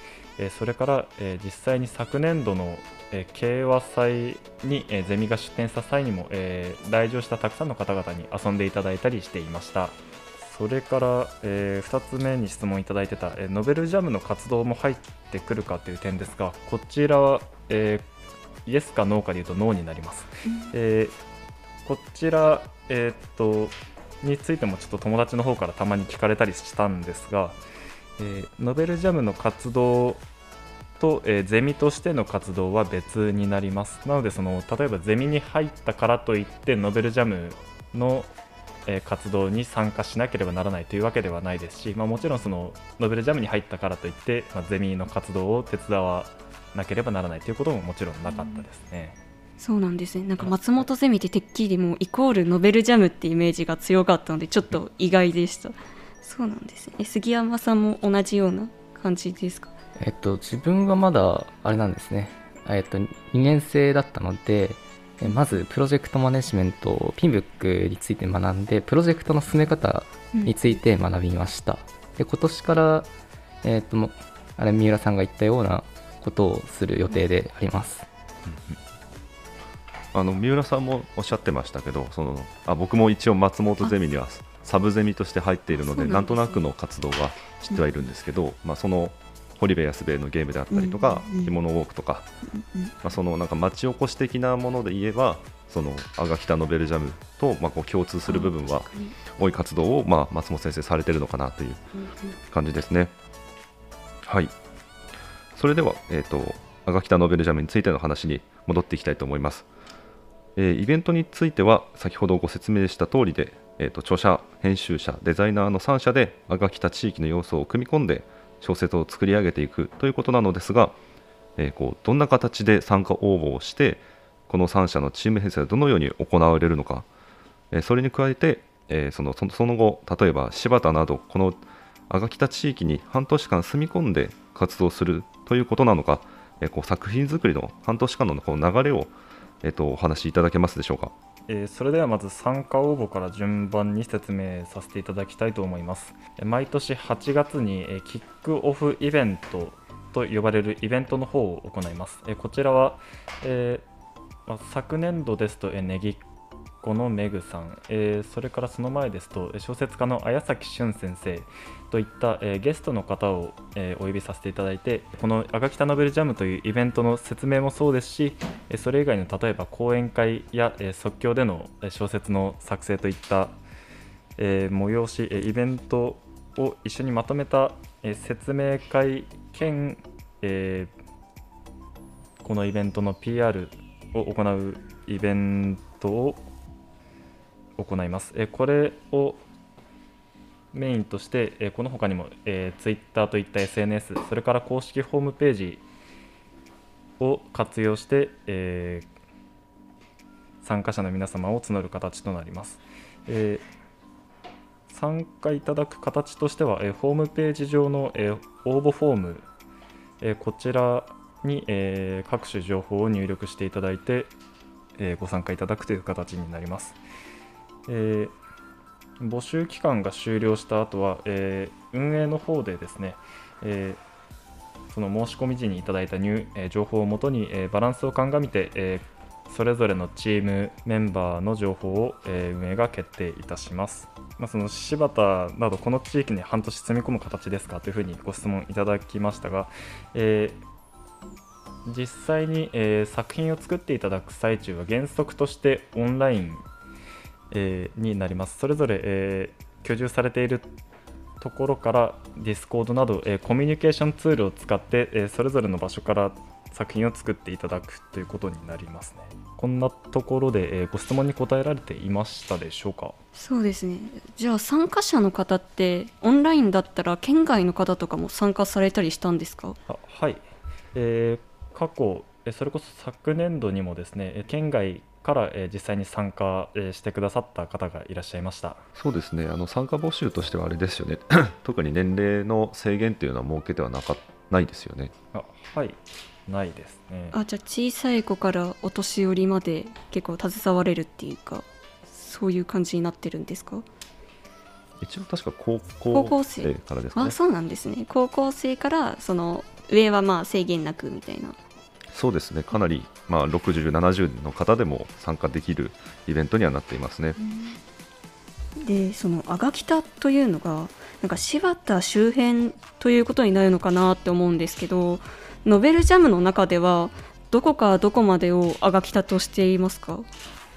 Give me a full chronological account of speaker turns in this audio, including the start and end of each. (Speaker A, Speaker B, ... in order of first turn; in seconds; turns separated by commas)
Speaker A: 0.4-18.1, Speaker A: 18.7-21.1, Speaker B: 20.5-20.7, Speaker A: 21.9-27.6, Speaker A: 28.2-30.2, Speaker A: 31.0-38.3, Speaker A: 38.9-49.2, Speaker B: 48.3-48.6, Speaker B: 49.6-59.7, Speaker C: 60.0-73.1, Speaker B: 65.2-65.6, Speaker B: 70.3-70.8, Speaker C: 73.6-78.1, Speaker D: 78.5-78.8, Speaker D: 80.1-92.3, Speaker B: 85.7-86.6, Speaker B: 90.7-91.5, Speaker B: 92.5-92.9, Speaker D: 93.0-101.8, Speaker B: 98.3-99.2, Speaker B: 102.0-102.4, Speaker D: 102.5-103.1, Speaker D: 104.2-104.5, Speaker D: 105.6-109.7, Speaker D: 110.6-121.0, Speaker D: 121.6-127.1, Speaker D: 127.7-141.1, Speaker A: 141.5-153.8, Speaker A: 154.5-156.2, Speaker A: 156.8-173.6, Speaker A: 174.4-180.9, Speaker A: 182.4-186.5, Speaker A: 187.8-189.4, Speaker A: 190.7-195.8, Speaker A: 197.2-199.1, Speaker A: 200.6-203.7, Speaker A: 204.9-209.5, Speaker A: 210.2-214.3, Speaker A: 215.0-217.0, Speaker A: 217.9-218.3, Speaker A: 219.2-224.0, Speaker A: 224.9-240.6, Speaker A: 241.9-246.7, Speaker A: 247.5-250.7, Speaker A: 251.4-263.2, Speaker B: 263.4-269.8, Speaker A: 269.9-270.4, Speaker A: 270.9-278.8, Speaker D: 278.9-285.1, Speaker A: 285.3-287.4, Speaker B: 287.3-293.9, Speaker D: 295.0-297.4, Speaker B: 296.1-301.6, Speaker D: 302.1-307.4, Speaker B: 307.4-307.8, Speaker B: 308.8-320.3